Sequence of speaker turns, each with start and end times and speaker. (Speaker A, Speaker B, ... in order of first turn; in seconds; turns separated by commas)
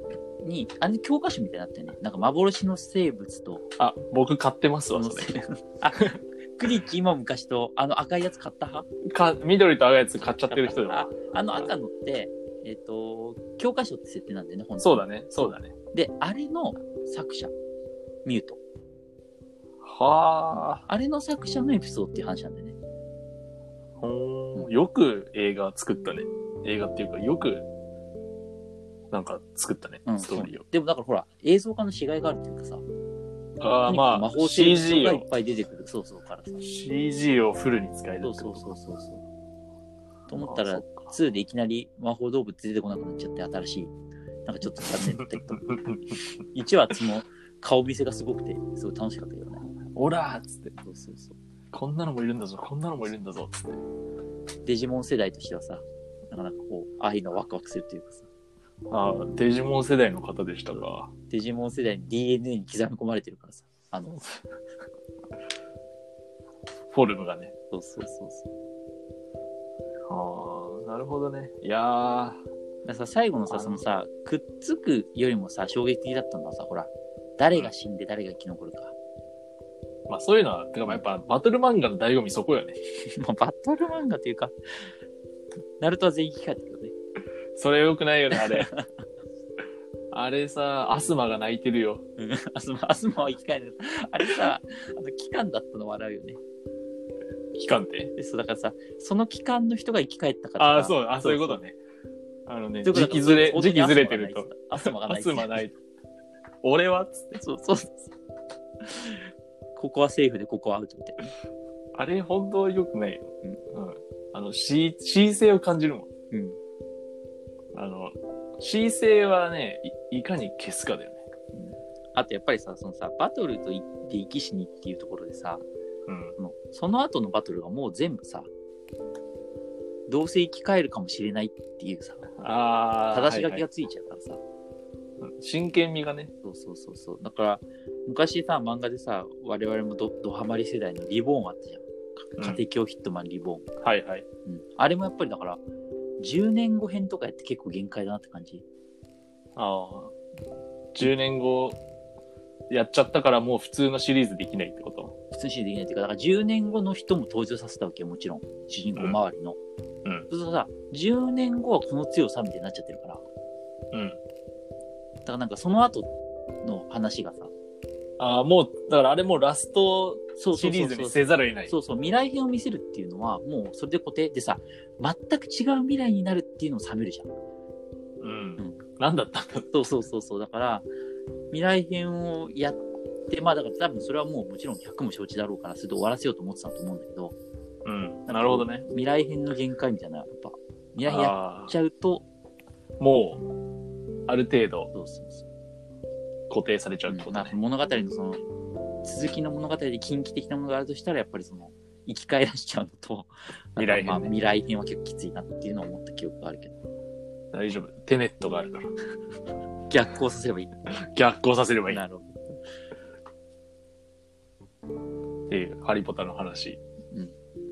Speaker A: 0.4-3.6, Speaker B: 3.8-5.3, Speaker A: 4.9-8.9, Speaker B: 9.0-11.7, Speaker A: 10.5-15.1, Speaker B: 14.8-15.7, Speaker A: 15.9-17.5, Speaker A: 18.2-18.6, Speaker B: 19.8-20.9, Speaker A: 20.9-22.8, Speaker B: 24.0-27.7, Speaker B: 29.1-30.6, Speaker A: 30.1-32.8, Speaker B: 33.6-35.3, Speaker A: 33.9-36.6, Speaker B: 36.6-38.7, Speaker A: 38.2-39.2, Speaker A: 40.3-43.9, Speaker B: 40.3-41.1, Speaker A: 44.5-49.7, Speaker B: 44.8-46.1, Speaker B: 49.9-50.7, Speaker A: 50.8-51.4, Speaker B: 51.7-53.8, Speaker A: 54.6-58.3, Speaker B: 58.9-61.1, Speaker A: 61.3-64.3, Speaker B: 66.9-67.5, Speaker A: 67.7-68.5, Speaker B: 70.1-72.4, Speaker A: 72.8-78.9, Speaker B: 73.5-73.8, Speaker B: 80.1-82.8, Speaker A: 83.1-84.5, Speaker A: 85.8-86.9, Speaker B: 87.5-88.7, Speaker A: 88.3-89.0, Speaker B: 90.1-92.0, Speaker A: 92.2-96.4, Speaker B: 97.6-98.1, Speaker A: 98.2-101.6, Speaker B: 100.6-101.8, Speaker B: 102.5-105.8, Speaker A: 102.8-105.6, Speaker B: 106.6-107.4, Speaker A: 107.4-108.1, Speaker A: 109.8-111.3, Speaker B: 111.9-116.1, Speaker A: 116.3-116.6, Speaker B: 117.7-121.2, Speaker A: 121.5-125.6, Speaker B: 126.1-126.4, Speaker A: 126.4-128.5, Speaker A: 130.1-132.3, Speaker B: 132.4-133.6, Speaker A: 133.1-134.4, Speaker B: 135.2-136.3, Speaker A: 136.4-143.7, Speaker B: 143.8-144.3, Speaker A: 144.5-145.6, Speaker A: 146.2-148.7, Speaker B: 149.6-150.1, Speaker B: 150.9-151.8, Speaker B: 152.7-155.1, Speaker A: 155.3-159.6, Speaker A: 160.3-163.2, Speaker B: 163.9-164.2, Speaker A: 165.2-166.1, Speaker A: 166.6-167.5, Speaker B: 168.2-171.7, Speaker A: 170.4-177.3, Speaker B: 178.2-179.7, Speaker A: 179.7-180.9, Speaker A: 181.5-187.3, Speaker B: 187.8-188.9, Speaker A: 188.3-192.2, Speaker B: 191.1-191.7, Speaker B: 193.0-193.4, Speaker B: 194.3-194.9, Speaker A: 194.9-195.5, Speaker B: 196.5-197.6, Speaker A: 197.1-198.4, Speaker A: 199.0-206.8, Speaker B: 203.8-204.3, Speaker B: 207.5-208.9, Speaker A: 209.9-210.7, Speaker B: 211.1-212.0, Speaker A: 211.9-212.4, Speaker B: 215.5-216.8